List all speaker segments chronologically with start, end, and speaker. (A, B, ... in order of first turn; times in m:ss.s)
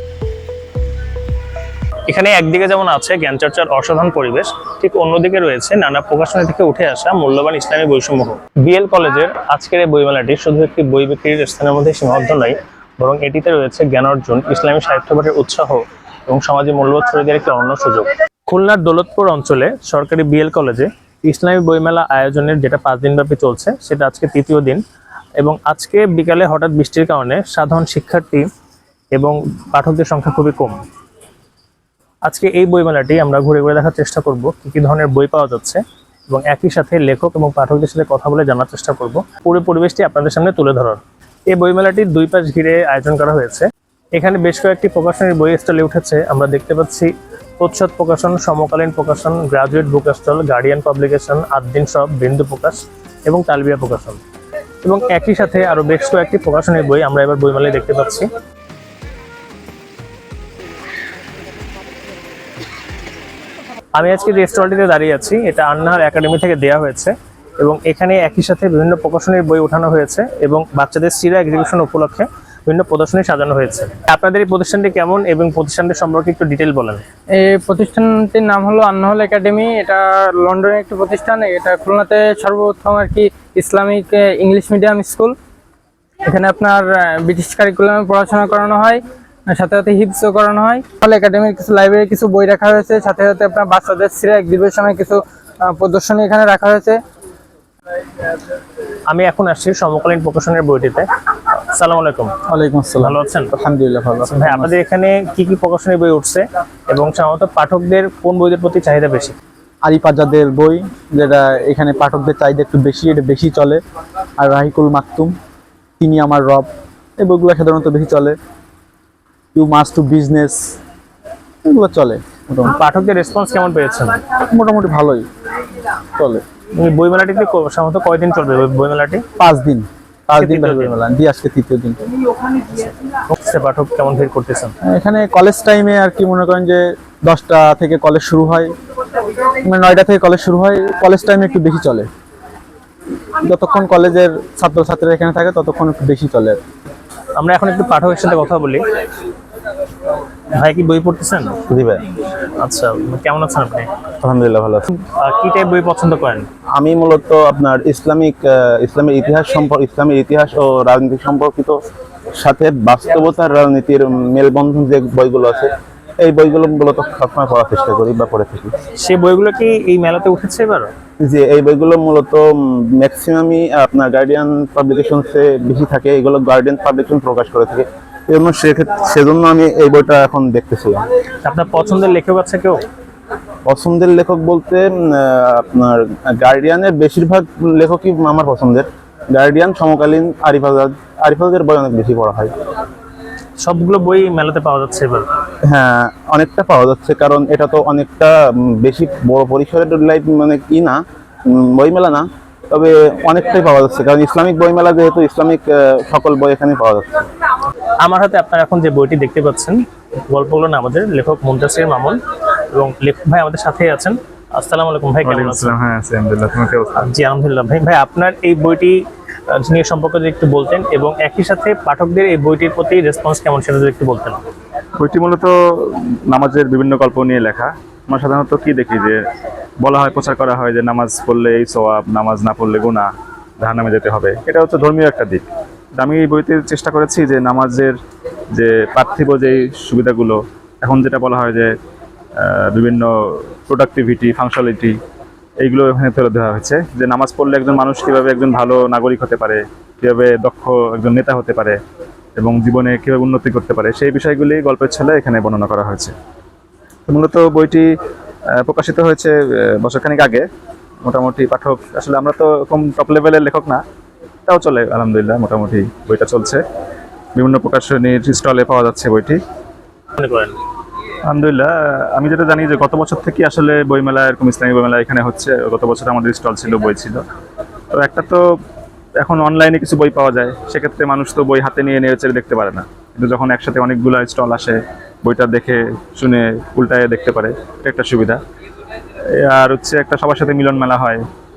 0:02.1-0:24.8 A
0:25.4-0:28.5 A
0:29.1-0:30.8 A
0:32.2-0:54.2 A
0:54.8-0:58.3 A
1:04.0-1:17.0 A
1:17.4-1:25.3 B
1:26.3-1:29.0 B
1:29.5-1:37.0 B
1:39.1-1:41.1 A
1:41.7-1:42.4 A
1:42.5-1:44.7 C
1:43.0-1:43.5 A
1:44.3-1:49.4 A
1:49.8-1:53.8 C
1:54.4-1:55.3 C
1:56.0-1:56.7 C
1:57.2-1:58.4 C
1:59.6-2:00.8 C
2:01.6-2:02.8 C
2:02.6-2:04.2 A
2:04.5-2:05.3 C
2:06.2-2:06.4 C
2:06.7-2:09.2 A
2:09.4-2:12.0 C
2:10.3-2:11.0 A
2:13.3-2:14.8 A
2:14.9-2:18.7 C
2:19.6-2:22.1 C
2:23.4-2:26.6 C
2:27.4-2:28.8 A
2:30.5-2:31.6 A
2:31.7-2:32.0 D
2:32.6-2:33.9 A
2:34.2-2:34.9 D
2:35.0-2:36.5 A
2:36.7-2:41.8 D
2:42.4-2:48.8 D
2:49.0-2:50.9 A
2:51.2-3:01.0 D
3:01.4-3:02.8 A
3:03.7-3:12.5 D
3:13.6-3:15.3 A
3:15.6-3:27.3 D
3:28.0-3:32.2 A
3:32.7-3:35.8 A
3:35.2-3:37.0 E
3:37.0-3:44.4 A
3:45.0-3:49.2 E
3:49.8-3:55.4 E
3:56.0-3:58.0 E
3:58.5-4:01.7 E
4:02.4-4:05.0 E
4:05.6-4:11.8 E
4:12.4-4:16.2 E
4:17.1-4:17.9 E
4:18.6-4:20.5 E
4:21.0-4:23.8 E
4:24.5-4:26.6 E
4:27.4-4:29.4 E
4:30.2-4:30.6 A
4:31.3-4:37.2 E
4:37.9-4:38.4 E
4:39.2-4:48.4 E
4:49.4-4:51.2 E